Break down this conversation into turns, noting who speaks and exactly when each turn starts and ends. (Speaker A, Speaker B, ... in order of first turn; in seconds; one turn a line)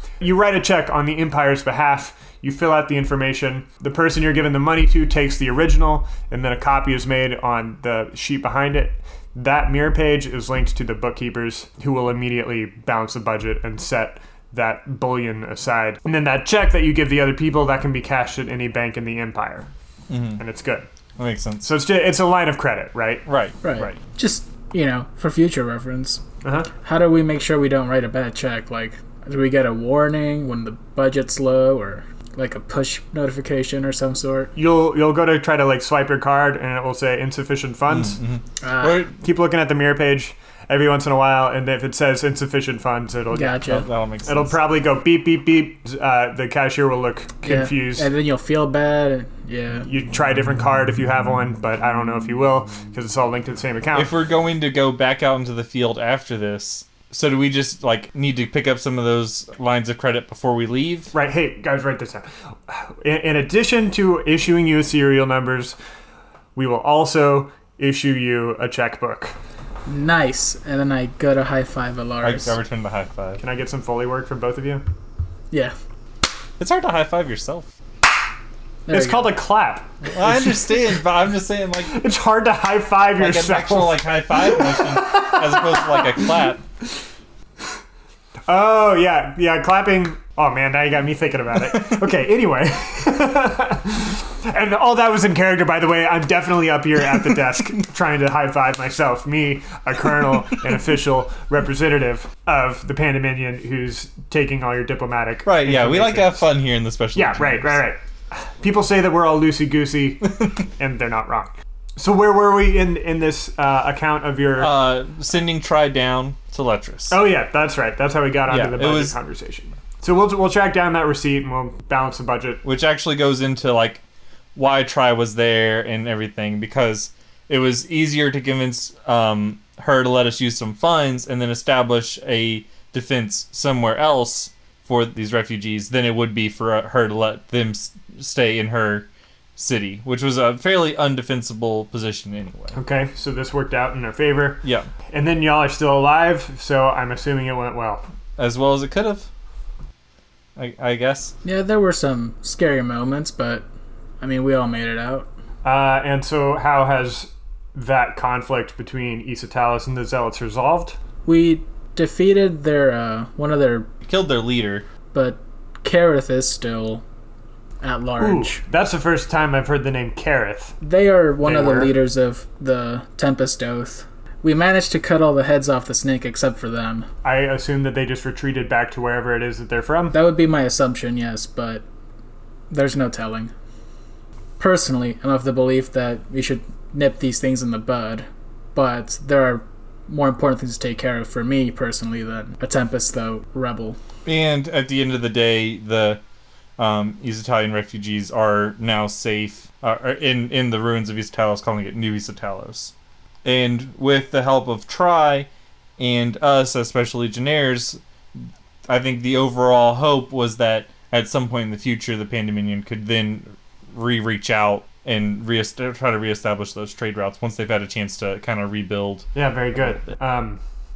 Speaker A: 0.2-19.7
Speaker B: 20.1-20.4
Speaker A: 20.4-20.9
Speaker B: 21.2-21.7
Speaker A: 21.6-23.3
Speaker B: 23.2-23.9
Speaker C: 23.6-26.2
Speaker A: 26.4-26.7
Speaker C: 26.8-34.5
Speaker A: 34.5-38.2
Speaker B: 37.9-39.1
Speaker C: 38.6-39.1
Speaker A: 39.1-48.1
Speaker C: 43.3-43.9
Speaker B: 43.7-44.6
Speaker C: 47.4-49.9
Speaker A: 49.9-54.1
Speaker B: 53.9-61.1
Speaker A: 61.1-65.8
Speaker A: 66.6-69.4
Speaker C: 69.9-72.6
Speaker B: 72.2-73.4
Speaker A: 73.4-74.8
Speaker C: 75.5-75.8
Speaker B: 76.6-77.7
Speaker C: 78.9-79.3
Speaker A: 78.9-80.9
Speaker B: 80.0-82.0
Speaker A: 81.8-86.3
Speaker B: 83.2-86.6
Speaker A: 88.5-106.4
Speaker B: 105.4-107.8
Speaker A: 107.1-114.7
Speaker B: 114.6-117.2
Speaker A: 117.1-122.6
Speaker B: 118.5-119.1
Speaker B: 122.6-124.0
Speaker B: 124.5-142.8
Speaker A: 142.7-148.0
Speaker B: 144.6-144.9
Speaker B: 148.4-149.3
Speaker B: 150.6-151.3
Speaker C: 151.4-153.7
Speaker C: 154.2-155.3
Speaker A: 155.6-161.0
Speaker C: 161.2-163.9
Speaker B: 164.1-164.9
Speaker C: 165.1-167.0
Speaker C: 167.8-168.6
Speaker A: 168.2-170.8
Speaker C: 170.8-177.1
Speaker A: 171.4-171.9
Speaker A: 177.2-180.1
Speaker C: 180.1-181.8
Speaker C: 182.7-183.5
Speaker C: 184.6-194.0
Speaker B: 194.2-196.2
Speaker B: 196.8-202.9
Speaker B: 203.4-219.3
Speaker A: 219.3-220.6